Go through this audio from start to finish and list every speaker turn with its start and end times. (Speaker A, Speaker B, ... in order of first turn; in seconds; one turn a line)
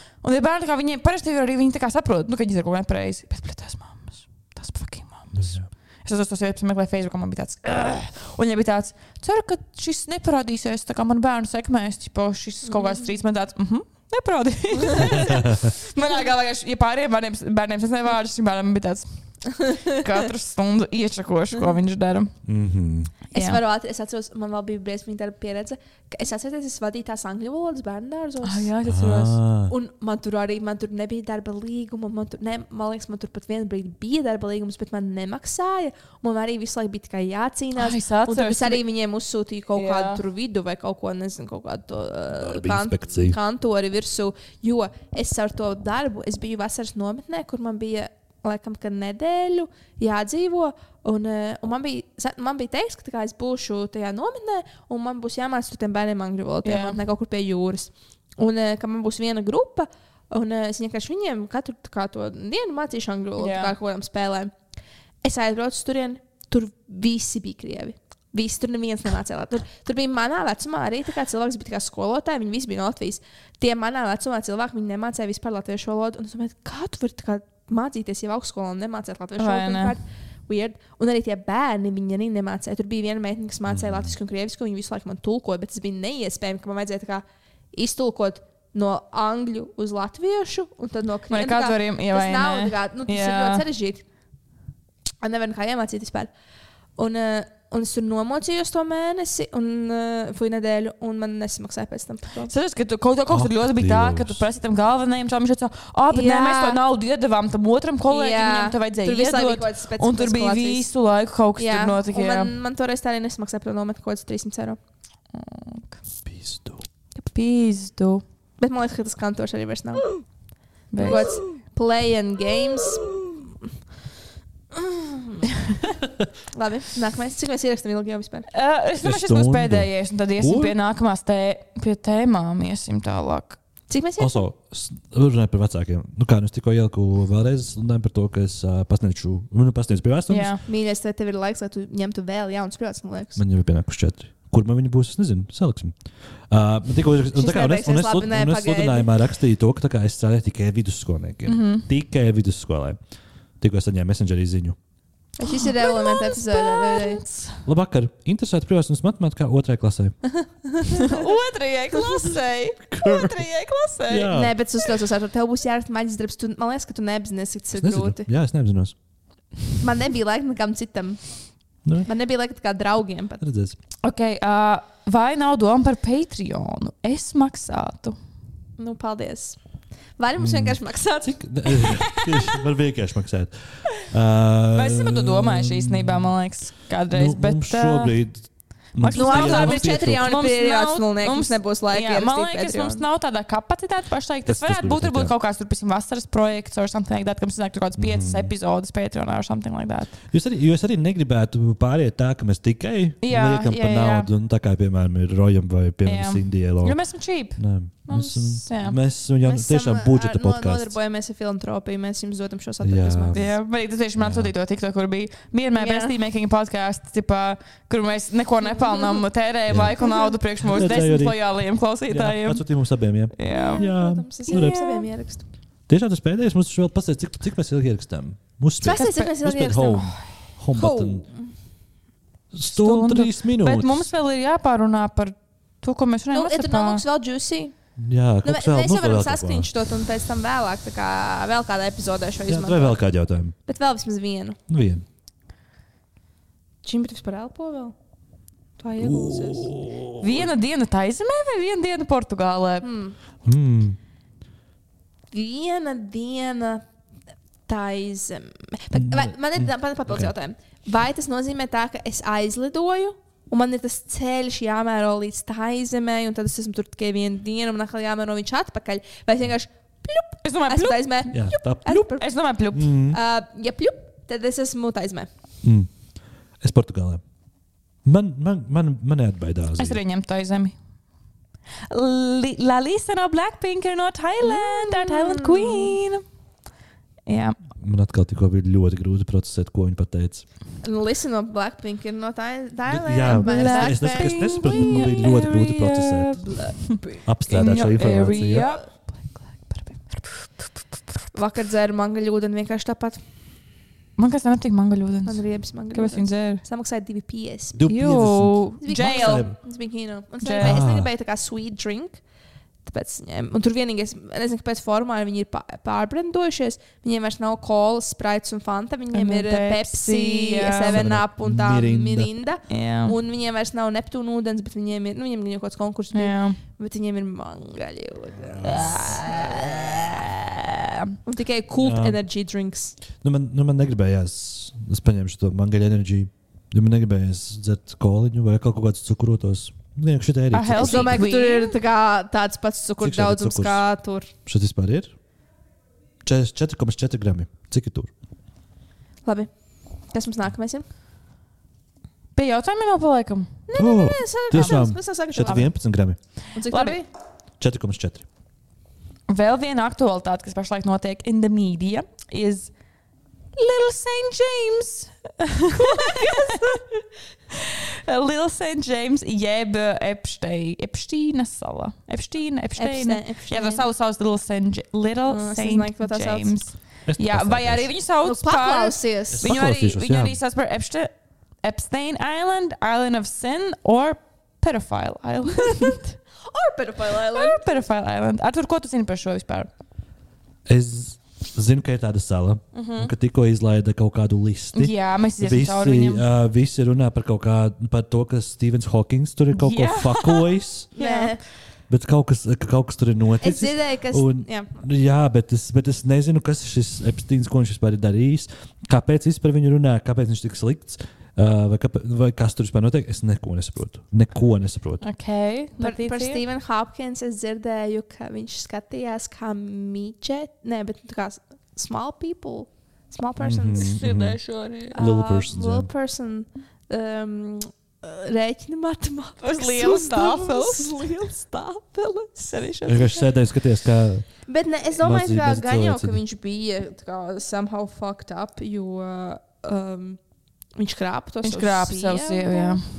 Speaker A: 0.2-22.3
Speaker B: 5.3-5.7
Speaker C: 12.7-13.0
Speaker C: 14.9-15.2
Speaker B: 15.1-15.7
Speaker B: 22.4-23.1
Speaker C: 23.3-28.7
Speaker A: 23.3-23.6
Speaker A: 28.4-29.4
Speaker B: 28.8-29.7
Speaker C: 29.7-64.5
Speaker A: 37.8-38.8
Speaker A: 39.7-40.2
Speaker B: 42.4-43.4
Speaker A: 56.6-57.0
Speaker A: 63.4-63.7
Speaker C: 65.2-94.0
Speaker A: 79.4-80.0
Speaker B: 83.7-84.1
Speaker A: 91.3-93.6
Speaker C: 95.2-96.3
Speaker C: 97.0-102.5
Speaker A: 102.5-112.5
Speaker B: 103.3-104.4
Speaker C: 106.1-106.8
Speaker C: 108.1-110.9
Speaker C: 111.6-114.8
Speaker A: 115.3-115.9
Speaker B: 116.2-116.8
Speaker A: 117.2-118.2
Speaker C: 118.6-120.1
Speaker A: 120.9-121.4
Speaker C: 121.0-123.1
Speaker C: 124.7-125.5
Speaker C: 126.5-128.5
Speaker A: 128.5-133.6
Speaker B: 129.0-130.8
Speaker C: 133.9-134.4
Speaker B: 134.2-140.6
Speaker A: 140.3-140.6
Speaker C: 140.6-143.4
Speaker B: 143.3-145.9
Speaker B: 146.5-153.0
Speaker C: 147.3-149.1
Speaker A: 151.4-151.9
Speaker B: 153.6-154.8
Speaker C: 155.4-157.2
Speaker A: 155.4-157.6
Speaker B: 157.7-160.2
Speaker C: 160.3-161.3
Speaker A: 160.9-164.4
Speaker C: 161.9-162.2
Speaker B: 162.9-163.4
Speaker B: 164.1-164.6
Speaker C: 164.3-168.3
Speaker B: 167.7-168.9
Speaker C: 169.8-171.2
Speaker C: 172.0-173.4
Speaker B: 173.4-173.8
Speaker A: 174.0-178.2
Speaker C: 178.8-179.6
Speaker C: 180.2-182.2
Speaker B: 180.4-186.3
Speaker A: 184.7-188.2
Speaker B: 187.1-188.4
Speaker B: 188.9-190.3
Speaker A: 189.0-200.2
Speaker C: 189.1-193.0
Speaker B: 194.4-195.3
Speaker B: 198.0-198.5
Speaker B: 200.3-207.0
Speaker A: 203.2-204.3
Speaker A: 206.0-209.0
Speaker B: 207.6-210.9
Speaker C: 209.4-213.4
Speaker B: 212.8-213.6
Speaker A: 213.3-222.6
Speaker B: 214.2-214.5
Speaker C: 215.8-216.1
Speaker C: 218.7-219.2
Speaker B: 219.7-220.0
Speaker C: 220.0-220.3
Speaker B: 220.6-221.4
Speaker B: 222.1-224.8
Speaker A: 223.3-223.9
Speaker C: 223.4-225.4
Speaker A: 224.5-225.1
Speaker B: 225.9-231.2
Speaker C: 228.8-230.1
Speaker A: 228.9-230.0
Speaker C: 230.7-231.5
Speaker B: 232.5-234.1
Speaker A: 232.7-237.0
Speaker C: 236.3-237.7
Speaker B: 238.0-239.7
Speaker C: 238.4-243.0
Speaker B: 242.5-243.5
Speaker C: 243.7-244.6
Speaker B: 244.7-245.0
Speaker C: 246.8-247.9
Speaker C: 248.8-249.7
Speaker B: 249.0-250.5
Speaker A: 250.2-252.9
Speaker C: 252.8-253.2
Speaker B: 253.4-254.0
Speaker C: 255.3-256.8
Speaker C: 257.7-272.2
Speaker B: 258.9-260.3
Speaker A: 270.4-271.3
Speaker B: 271.3-272.0
Speaker A: 271.8-273.0
Speaker B: 272.7-273.2
Speaker C: 273.1-275.3
Speaker B: 275.6-275.9
Speaker B: 276.6-277.2
Speaker B: 278.0-280.0
Speaker A: 279.8-280.7
Speaker A: 281.9-286.2
Speaker C: 284.4-286.0
Speaker A: 287.2-287.6
Speaker B: 287.8-290.4
Speaker C: 290.8-295.1
Speaker B: 292.9-296.4
Speaker A: 293.3-299.1
Speaker C: 296.6-297.2
Speaker B: 297.2-298.7
Speaker C: 298.0-298.8
Speaker A: 299.6-300.5
Speaker C: 301.3-303.2
Speaker A: 304.2-306.6
Speaker C: 305.2-307.8
Speaker B: 307.7-309.6
Speaker A: 307.9-309.5
Speaker C: 308.8-312.2
Speaker A: 310.4-310.8
Speaker B: 310.6-311.1
Speaker C: 312.8-330.3
Speaker A: 319.1-321.1
Speaker B: 320.9-322.3
Speaker A: 322.7-323.2
Speaker A: 326.1-326.6
Speaker B: 328.4-328.9
Speaker A: 329.0-329.5
Speaker C: 331.2-333.0
Speaker B: 331.8-332.2
Speaker B: 333.2-341.2
Speaker A: 340.5-341.8
Speaker C: 340.7-344.3
Speaker B: 343.0-343.9
Speaker B: 344.4-345.1
Speaker B: 346.2-348.1
Speaker C: 349.2-349.5
Speaker C: 350.1-350.9
Speaker A: 352.3-353.6
Speaker C: 353.7-355.7
Speaker B: 353.8-356.2
Speaker A: 354.5-355.7
Speaker C: 356.5-357.1
Speaker A: 356.7-357.0
Speaker B: 357.6-358.2
Speaker A: 359.3-362.7
Speaker A: 363.5-386.2
Speaker C: 365.7-366.8
Speaker C: 372.8-373.9
Speaker C: 375.3-376.5
Speaker B: 377.1-377.9
Speaker C: 378.2-379.5
Speaker B: 379.4-380.4
Speaker C: 385.5-387.8
Speaker A: 387.2-389.7
Speaker B: 390.7-400.9
Speaker A: 392.7-393.1
Speaker A: 394.7-396.2
Speaker A: 399.5-401.4
Speaker C: 400.9-401.4
Speaker B: 401.9-415.0
Speaker C: 403.4-404.7
Speaker A: 415.0-416.4
Speaker C: 415.8-423.9
Speaker B: 423.4-424.4
Speaker A: 423.8-425.0
Speaker C: 424.9-432.5
Speaker B: 424.9-425.9
Speaker A: 429.4-431.0
Speaker A: 432.4-433.3
Speaker B: 432.9-434.3
Speaker C: 434.4-440.2
Speaker B: 435.0-436.2
Speaker C: 440.8-442.8
Speaker A: 441.4-442.8